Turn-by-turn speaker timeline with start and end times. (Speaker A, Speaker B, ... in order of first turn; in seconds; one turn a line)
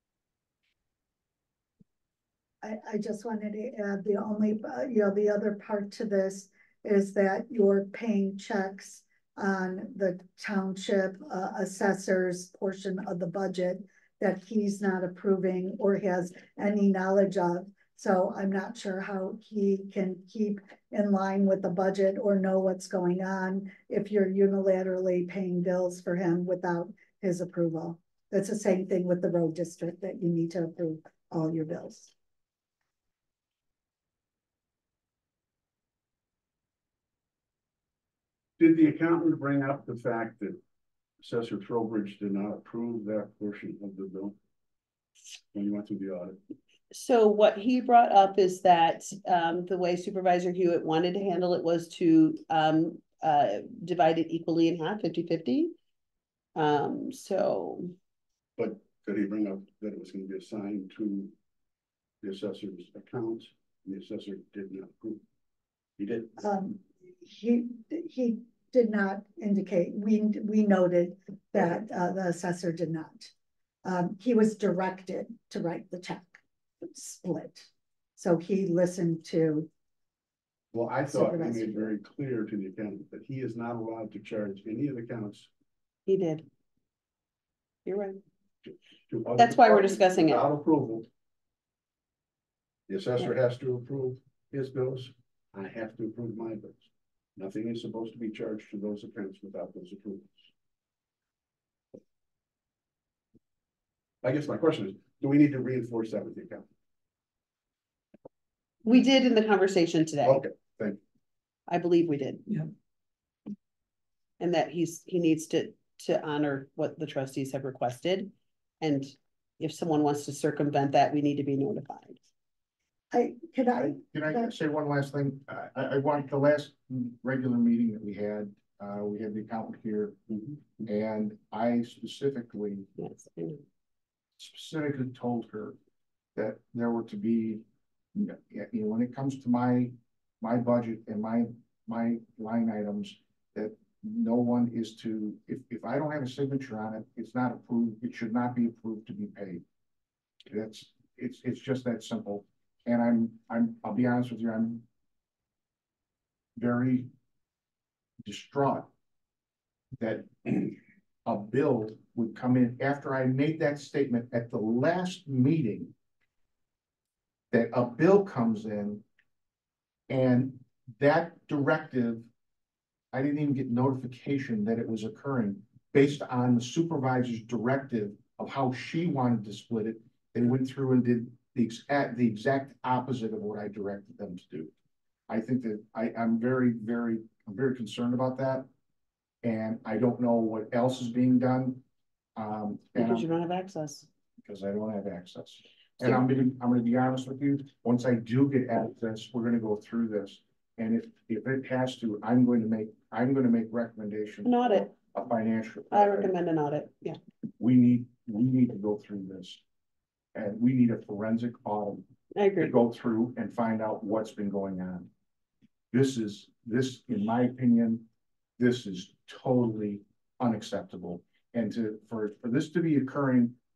Speaker A: 2.6-32.1
Speaker B: 38.6-40.6
Speaker B: 41.2-44.4
Speaker B: 45.5-46.4
Speaker C: 46.9-55.8
Speaker C: 56.5-57.9
Speaker B: 58.6-61.3
Speaker B: 62.2-65.2
Speaker B: 66.0-66.3
Speaker A: 66.4-73.3
Speaker A: 73.8-79.7
Speaker B: 80.7-85.5
Speaker A: 81.1-81.9
Speaker C: 86.1-86.5
Speaker C: 87.9-88.2
Speaker B: 88.7-91.1
Speaker C: 89.4-90.5
Speaker B: 92.9-100.5
Speaker B: 104.2-106.7
Speaker C: 108.8-110.4
Speaker B: 110.2-111.0
Speaker C: 111.7-112.5
Speaker C: 114.4-122.2
Speaker A: 123.1-124.5
Speaker D: 123.8-130.2
Speaker B: 130.3-130.6
Speaker D: 130.9-132.9
Speaker C: 133.0-133.6
Speaker D: 134.4-135.8
Speaker D: 136.3-149.6
Speaker D: 150.5-154.8
Speaker D: 156.6-157.1
Speaker D: 158.2-158.9
Speaker D: 160.0-165.9
Speaker D: 167.5-169.0
Speaker D: 170.1-172.3
Speaker D: 173.1-184.7
Speaker D: 185.3-188.7
Speaker D: 189.4-191.8
Speaker D: 192.4-193.3
Speaker C: 192.9-194.1
Speaker D: 194.4-206.3
Speaker C: 204.4-204.9
Speaker C: 205.9-207.2
Speaker D: 207.6-209.6
Speaker D: 210.3-212.0
Speaker C: 212.3-212.7
Speaker D: 212.6-215.1
Speaker D: 215.9-218.1
Speaker D: 218.6-223.6